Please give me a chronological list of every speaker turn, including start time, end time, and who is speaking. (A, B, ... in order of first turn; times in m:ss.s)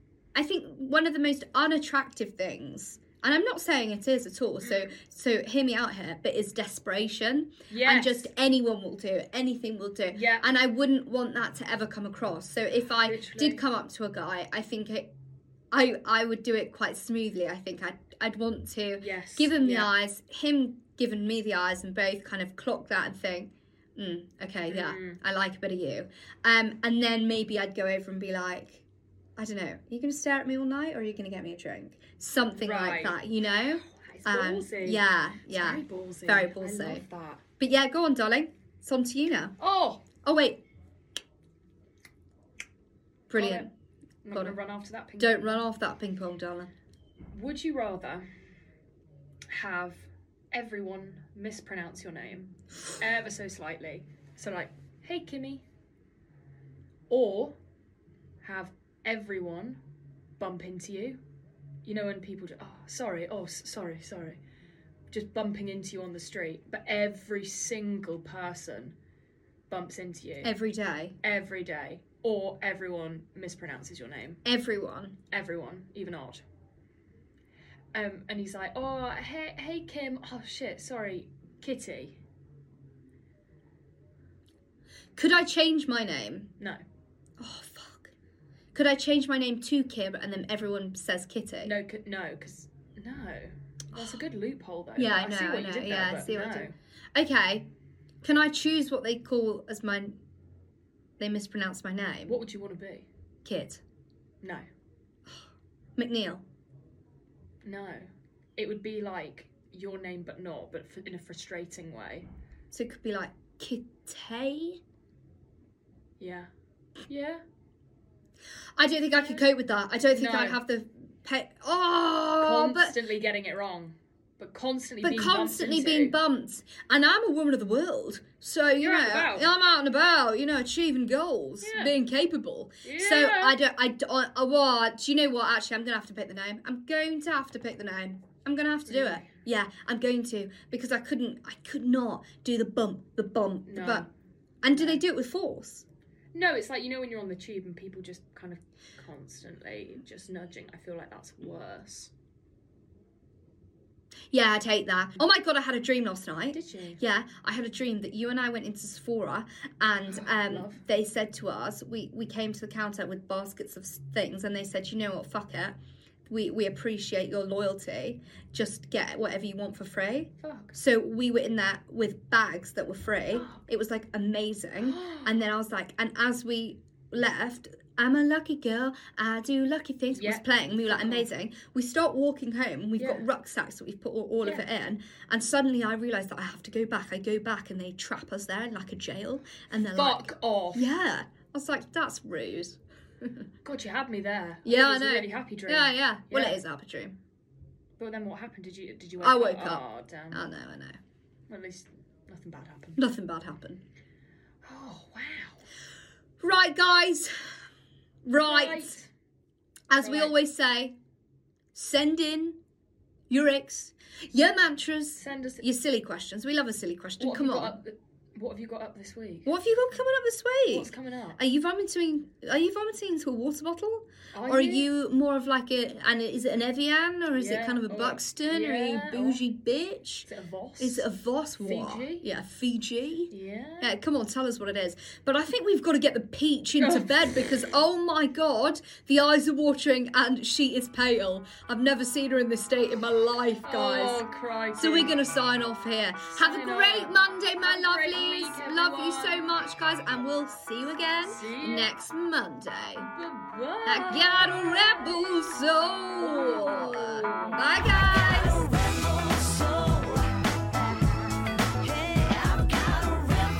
0:00.3-0:15.1 A
0:04.6-0:04.9 B
0:07.7-0:08.3 B
0:10.1-0:10.5 B
0:13.0-0:13.6 B
0:15.7-0:28.8 A
0:19.0-0:19.9 B
0:24.7-0:25.2 B
0:29.4-0:37.0 A
0:32.6-0:37.4 B
0:37.6-0:39.6 A
0:39.6-0:40.0 B
0:40.2-0:40.6 A
0:43.3-0:43.7 A
0:43.3-0:43.7 B
0:44.2-0:45.6 B
0:45.2-0:46.7 A
0:47.3-0:48.3 B
0:49.5-0:55.6 B
0:57.1-0:57.6 B
0:58.4-0:59.8 B
1:00.4-1:01.2 B
1:01.8-1:04.4 B
1:05.1-1:08.9 B
1:09.7-1:10.5 B
1:10.4-1:11.2 A
1:11.2-1:14.4 B
1:14.4-1:15.2 A
1:15.3-1:16.4 B
1:17.9-1:22.2 B
1:25.2-1:26.5 A
1:27.4-1:28.1 A
1:28.7-1:31.8 A
1:31.6-1:36.7 B
1:35.0-1:37.7 A
1:38.2-1:40.2 A
1:41.2-1:42.4 A
1:42.2-1:43.1 B
1:43.4-1:43.8 A
1:46.0-1:46.4 A
1:47.6-1:52.3 B
1:52.7-1:54.8 A
1:56.2-1:56.5 B
1:57.1-1:57.4 B
1:58.8-2:03.0 A
1:59.2-1:59.4 B
2:00.1-2:00.6 B
2:02.4-2:06.2 B
2:05.0-2:24.0 A
2:08.8-2:09.5 B
2:11.6-2:11.9 B
2:12.8-2:13.6 B
2:18.9-2:19.3 B
2:23.7-2:24.1 B
2:24.6-2:25.8 A
2:24.8-2:25.0 B
2:26.3-2:32.1 B
2:34.3-2:45.7 A
2:36.5-2:37.0 B
2:40.1-2:40.8 B
2:46.3-3:13.4 A
2:50.4-2:50.7 B
2:53.3-2:53.6 B
2:54.8-2:55.4 B
3:00.1-3:01.3 B
3:03.0-3:03.3 B
3:04.4-3:04.7 B
3:09.9-3:10.9 B
3:13.6-3:16.6 B
3:14.6-3:17.2 A
3:18.0-3:20.5 B
3:19.2-3:21.0 A
3:21.5-3:23.0 B
3:23.0-3:23.8 A
3:24.6-3:25.6 B
3:26.4-3:27.6 A
3:28.3-3:28.9 A
3:28.4-3:29.1 B
3:29.9-3:31.0 A
3:30.0-3:30.3 B
3:31.7-3:32.6 A
3:33.3-3:37.8 A
3:35.2-3:35.6 B
3:37.2-3:39.5 B
3:39.4-3:50.3 A
3:40.6-3:41.4 B
3:44.3-3:44.9 B
3:47.3-3:49.4 B
3:50.3-3:51.1 B
3:50.8-4:04.2 A
3:51.6-3:52.3 B
3:53.3-3:54.0 B
3:56.8-3:57.5 B
4:03.6-4:05.1 B
4:04.7-4:13.1 A
4:06.3-4:09.6 B
4:11.2-4:11.9 B
4:13.1-4:15.3 B
4:13.9-4:18.8 A
4:16.2-4:17.7 B
4:19.4-4:19.9 B